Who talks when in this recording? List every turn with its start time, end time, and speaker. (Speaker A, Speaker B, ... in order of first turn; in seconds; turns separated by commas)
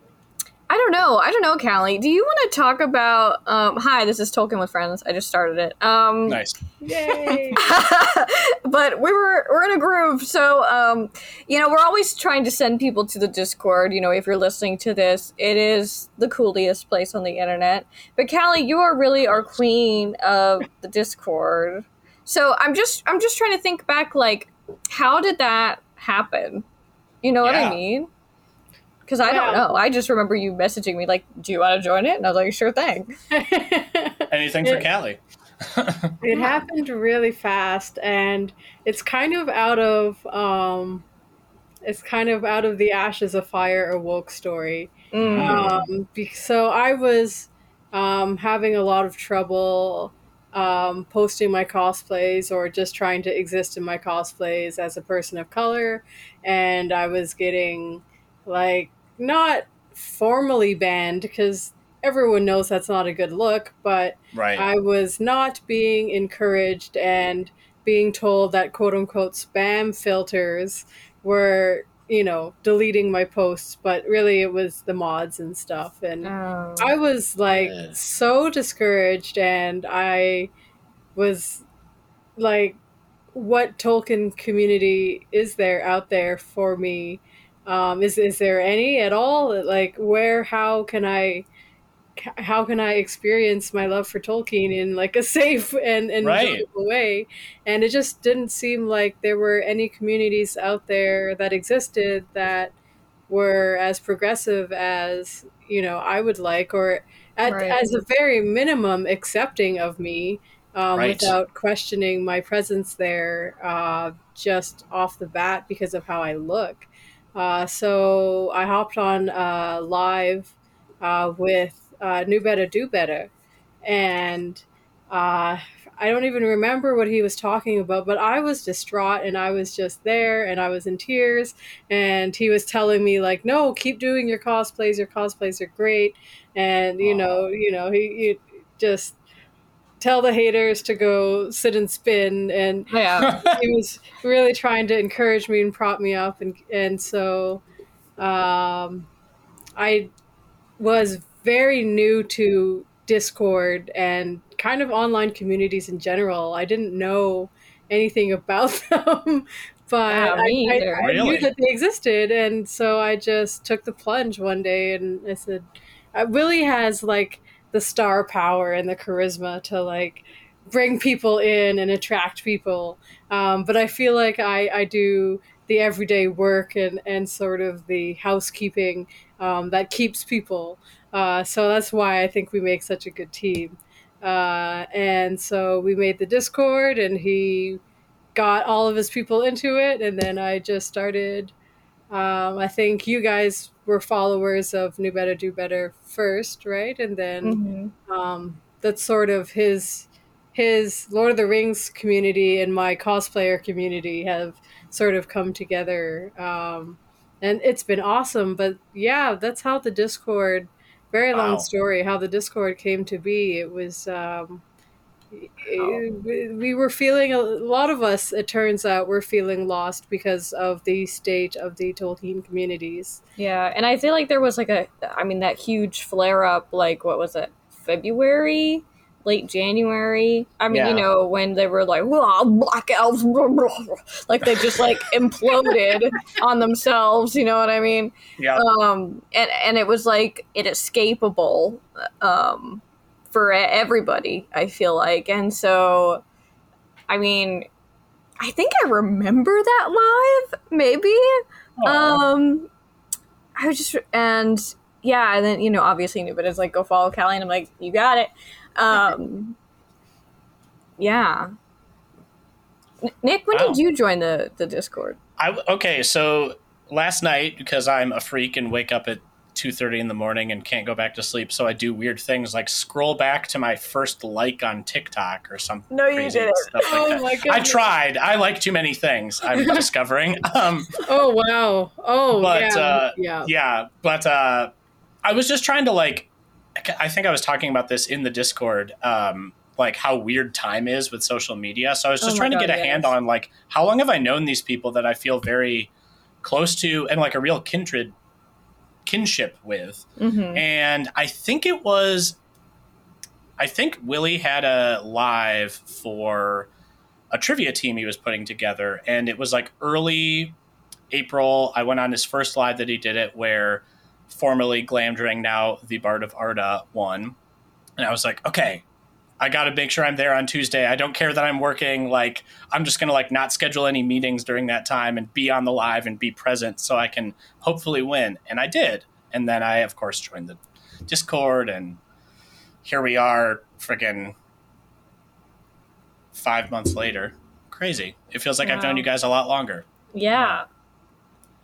Speaker A: 0.7-6.4, Speaker B: 6.3-6.6, Speaker C: 6.8-7.6, Speaker A: 7.5-26.6, Speaker A: 27.2-28.1, Speaker B: 27.4-27.8, Speaker A: 29.1-33.2, Speaker C: 29.3-29.6, Speaker C: 33.3-34.9, Speaker B: 34.3-36.2, Speaker C: 36.2-41.0, Speaker A: 36.3-36.6, Speaker C: 41.9-80.5, Speaker A: 45.1-45.7, Speaker B: 45.2-45.9, Speaker B: 64.3-64.7, Speaker A: 76.2-76.9, Speaker B: 77.5-78.0, Speaker C: 81.2-81.6, Speaker C: 82.4-82.8, Speaker C: 83.3-91.5, Speaker C: 92.2-102.7, Speaker B: 96.2-96.7, Speaker C: 103.3-123.3, Speaker A: 107.5-107.8, Speaker B: 111.0-111.4, Speaker C: 123.8-139.2, Speaker B: 137.0-137.3, Speaker C: 140.0-147.6, Speaker A: 142.9-143.4, Speaker B: 143.3-143.6, Speaker C: 148.2-149.1, Speaker C: 149.8-150.1, Speaker C: 150.8-187.8, Speaker A: 160.1-161.1, Speaker B: 161.0-161.5, Speaker C: 188.3-191.5, Speaker C: 192.1-214.6, Speaker A: 197.4-197.9, Speaker B: 211.3-211.7, Speaker C: 215.3-223.2, Speaker A: 223.4-246.2, Speaker B: 230.7-231.1, Speaker B: 238.4-238.7, Speaker A: 247.1-247.7, Speaker A: 248.4-252.7, Speaker B: 251.8-252.2, Speaker A: 253.6-259.6, Speaker A: 261.0-261.5, Speaker A: 263.0-265.2, Speaker B: 263.5-263.8, Speaker B: 265.4-280.9, Speaker A: 275.9-277.2, Speaker C: 276.9-277.9, Speaker C: 279.6-279.8, Speaker C: 281.1-283.5, Speaker B: 282.3-284.7, Speaker B: 285.2-295.9, Speaker A: 292.2-293.1, Speaker B: 296.4-298.1, Speaker B: 299.1-302.4, Speaker A: 300.2-300.6, Speaker B: 303.6-306.7, Speaker B: 307.3-310.6, Speaker B: 311.1-317.4, Speaker B: 318.0-318.8, Speaker B: 319.4-332.0, Speaker B: 332.9-334.4, Speaker B: 336.3-340.6, Speaker A: 338.6-339.1, Speaker A: 340.1-340.7